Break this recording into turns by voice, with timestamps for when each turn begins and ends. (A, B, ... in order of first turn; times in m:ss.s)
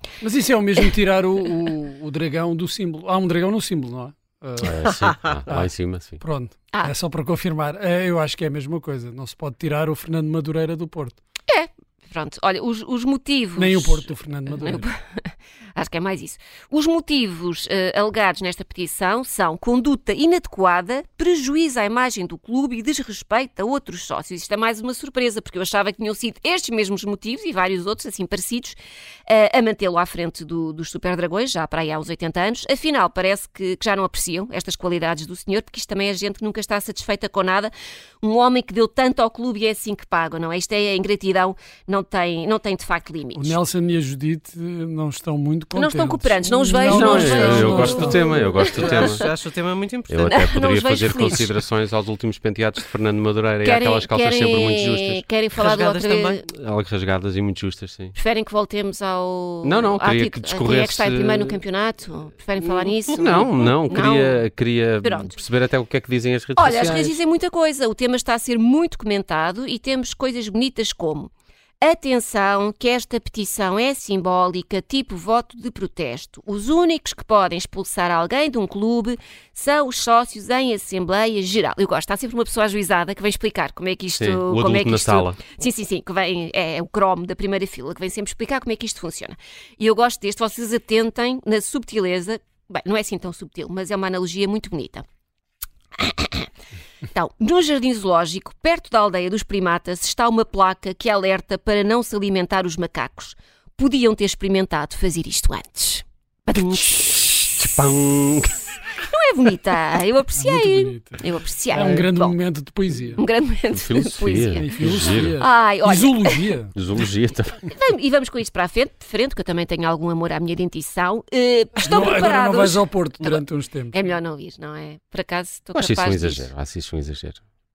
0:00.2-0:11.2 A
0:04.6-0:06.2 B
0:11.5-0:43.6 C
0:13.6-0:14.9 A
0:43.4-0:48.3 A
0:45.8-0:49.3 C
0:46.8-0:49.3 B
0:48.3-0:50.5 D
0:50.1-0:55.2 B
0:50.3-0:51.5 C
0:53.6-0:56.4 C
0:55.5-0:56.4 D
0:56.5-0:58.2 B
0:58.2-1:04.4 C
0:59.6-1:01.6 B
1:03.1-1:07.1 B
1:05.0-1:05.4 C
1:06.6-1:35.0 C
1:24.2-1:25.4 B
1:36.0-1:36.5 C
1:37.1-1:47.8 C
1:46.6-1:48.6 B
1:49.0-1:52.4 C
1:50.4-1:51.2 A
1:51.7-1:53.2 A
1:53.2-1:56.5 C
1:53.7-1:55.4 B
1:54.4-1:56.7 A
1:56.7-1:57.7 B
1:57.7-2:06.5 C
2:01.8-2:04.0 A
2:05.8-2:07.4 B